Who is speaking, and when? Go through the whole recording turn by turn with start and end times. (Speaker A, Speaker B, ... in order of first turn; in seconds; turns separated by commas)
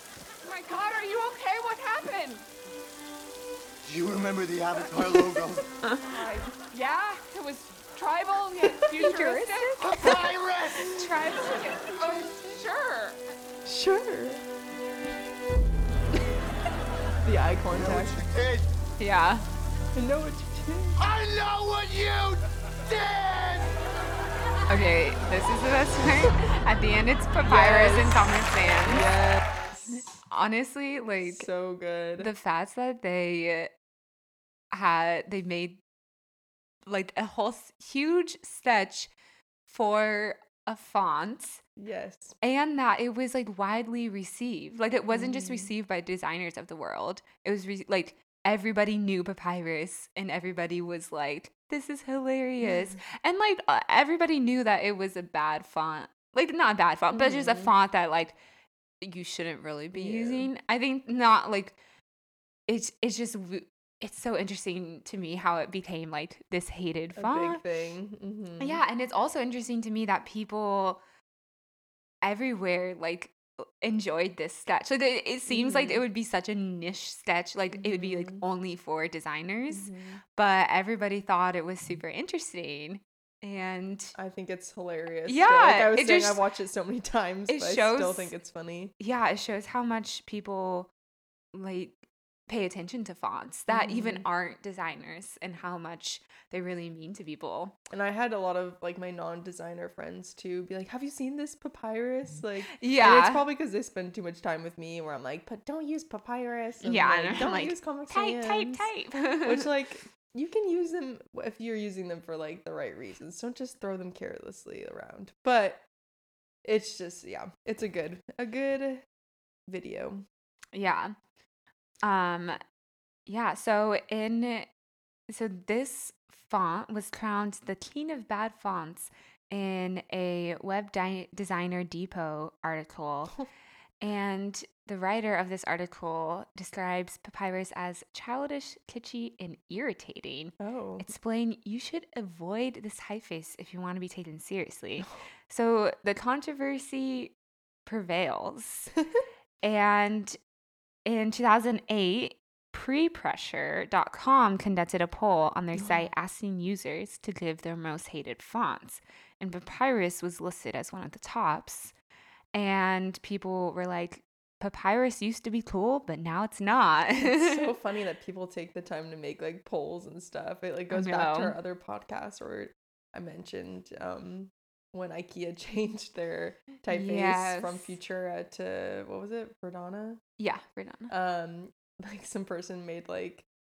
Speaker A: 0.4-2.5, Speaker B: 3.8-5.7, Speaker A: 5.9-10.2, Speaker C: 6.1-6.4, Speaker C: 8.6-10.3, Speaker B: 9.8-11.1, Speaker A: 10.8-13.2, Speaker C: 13.7-14.4, Speaker C: 17.2-18.2, Speaker B: 17.7-18.7, Speaker A: 19.0-19.4, Speaker C: 19.9-21.0, Speaker B: 21.0-23.8, Speaker A: 24.7-29.1, Speaker C: 27.4-30.1, Speaker A: 30.3-31.5, Speaker C: 31.2-32.3, Speaker A: 32.2-33.7, Speaker A: 34.7-35.8, Speaker A: 36.9-39.1, Speaker A: 39.7-41.6, Speaker C: 41.8-42.4, Speaker A: 42.4-58.4, Speaker C: 45.1-45.7, Speaker C: 52.6-52.9, Speaker C: 57.1-57.7, Speaker A: 59.0-61.8, Speaker C: 59.9-60.5, Speaker A: 62.7-67.6, Speaker C: 67.2-68.8, Speaker A: 68.6-71.0, Speaker A: 72.2-84.1, Speaker C: 75.5-76.0, Speaker C: 77.7-78.4, Speaker C: 79.7-80.2, Speaker C: 84.2-88.9, Speaker A: 85.3-86.4, Speaker A: 87.5-88.3, Speaker A: 89.0-90.9, Speaker A: 91.5-97.8, Speaker C: 93.7-94.3, Speaker C: 97.9-108.9, Speaker A: 102.8-103.5, Speaker A: 106.8-109.7, Speaker C: 109.4-115.8, Speaker C: 116.6-119.1, Speaker C: 119.7-120.2, Speaker A: 120.7-121.1, Speaker A: 122.0-122.6, Speaker A: 123.3-124.7, Speaker A: 125.3-133.4, Speaker A: 134.0-147.3, Speaker C: 140.6-141.1, Speaker A: 147.9-148.9, Speaker A: 149.6-150.4, Speaker A: 151.1-161.9, Speaker C: 155.8-156.1, Speaker A: 162.5-167.7, Speaker C: 167.2-180.2, Speaker A: 170.9-171.6, Speaker A: 176.9-177.9, Speaker A: 180.4-181.1, Speaker C: 181.1-183.5